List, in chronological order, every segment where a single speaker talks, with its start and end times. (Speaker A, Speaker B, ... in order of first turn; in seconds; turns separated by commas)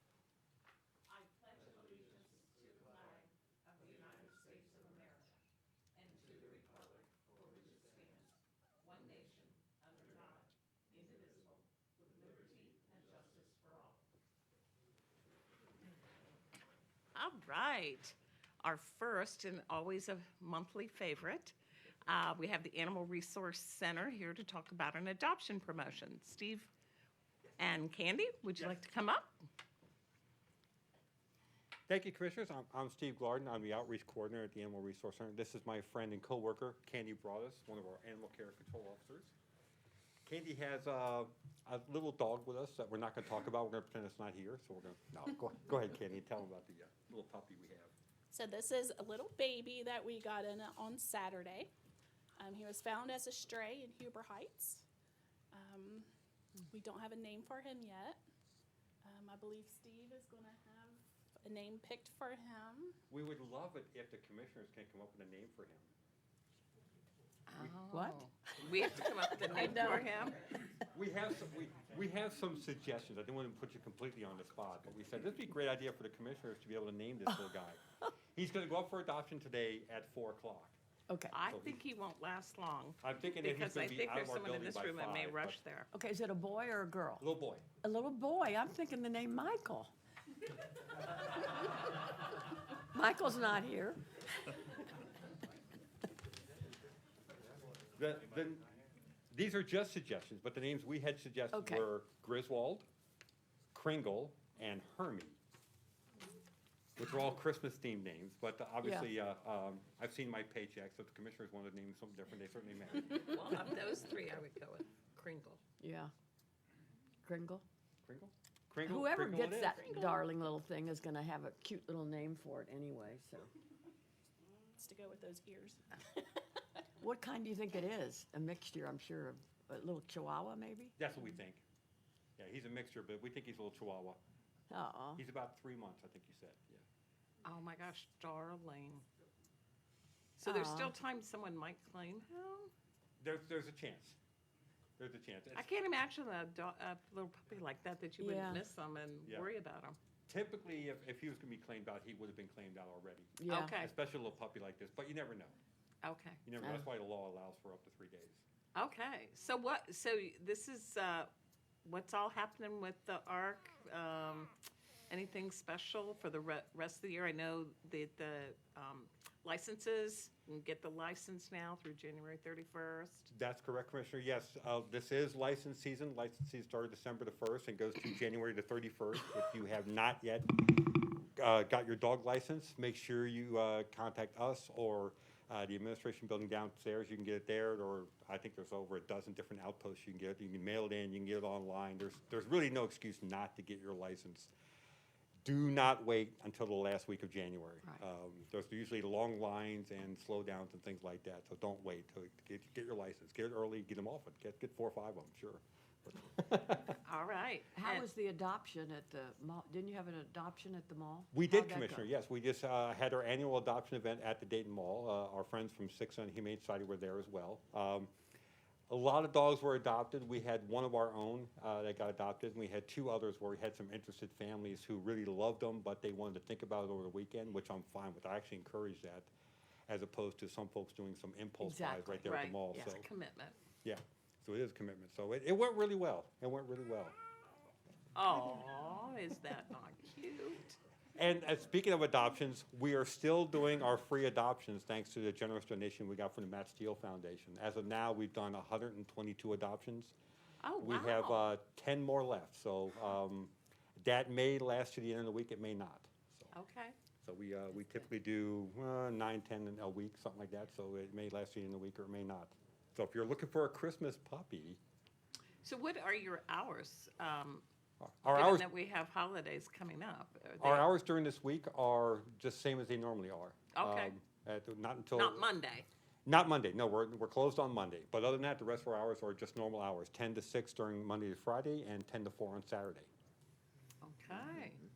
Speaker A: 1.1-5.4, Speaker A: 5.9-14.0, Speaker A: 17.1-21.5, Speaker A: 22.1-26.7, Speaker A: 27.6-29.3, Speaker B: 31.9-39.3, Speaker B: 40.2-47.9, Speaker C: 48.3-51.7, Speaker C: 52.4-54.9, Speaker C: 55.5-56.1, Speaker C: 56.6-58.2, Speaker C: 59.0-63.0, Speaker B: 63.1-65.9, Speaker A: 67.5-70.4, Speaker D: 67.9-70.2, Speaker B: 70.9-77.8, Speaker B: 78.3-80.8, Speaker D: 81.1-81.3, Speaker A: 81.3-85.9, Speaker B: 81.5-81.8, Speaker B: 83.0-85.6, Speaker D: 85.9-87.3, Speaker B: 87.2-87.6, Speaker D: 87.8-89.9, Speaker D: 92.9-94.6, Speaker B: 98.0-98.7, Speaker B: 99.3-102.8, Speaker D: 101.5-101.8, Speaker B: 103.7-105.4, Speaker B: 107.0-113.3, Speaker D: 108.8-109.1, Speaker A: 113.1-115.6, Speaker D: 115.8-116.1, Speaker D: 117.2-117.6, Speaker B: 118.0-119.8, Speaker D: 118.8-123.5, Speaker A: 119.7-120.2, Speaker C: 124.8-126.6, Speaker D: 127.0-130.9, Speaker B: 131.0-131.6, Speaker B: 132.4-134.2, Speaker D: 134.7-135.2, Speaker B: 135.2-136.8, Speaker A: 137.4-139.1, Speaker A: 140.4-142.7, Speaker D: 140.4-140.9, Speaker B: 143.2-144.2, Speaker B: 145.0-145.7, Speaker A: 145.5-150.0, Speaker D: 148.2-148.6, Speaker B: 149.2-149.5, Speaker B: 150.3-155.5, Speaker D: 153.4-153.8, Speaker A: 153.5-153.9, Speaker A: 156.0-156.4, Speaker B: 156.4-158.4, Speaker D: 156.6-156.9, Speaker A: 158.7-161.3, Speaker A: 161.8-164.5, Speaker A: 165.1-173.3, Speaker B: 173.3-180.5, Speaker B: 181.3-194.5, Speaker B: 195.4-207.0, Speaker A: 207.0-208.1, Speaker D: 207.7-212.1, Speaker B: 211.3-218.1, Speaker B: 218.9-229.3, Speaker B: 229.9-233.1, Speaker D: 231.6-232.9, Speaker A: 232.2-233.6, Speaker B: 233.8-237.1, Speaker A: 238.1-240.8, Speaker B: 241.1-250.1, Speaker A: 250.6-251.5, Speaker B: 250.8-256.5, Speaker A: 256.5-256.9, Speaker B: 257.2-264.8, Speaker A: 265.6-267.6, Speaker B: 268.0-268.6, Speaker A: 268.3-270.9, Speaker B: 270.6-275.4, Speaker A: 273.7-274.1, Speaker A: 275.1-275.9, Speaker B: 276.2-283.1, Speaker A: 284.0-284.8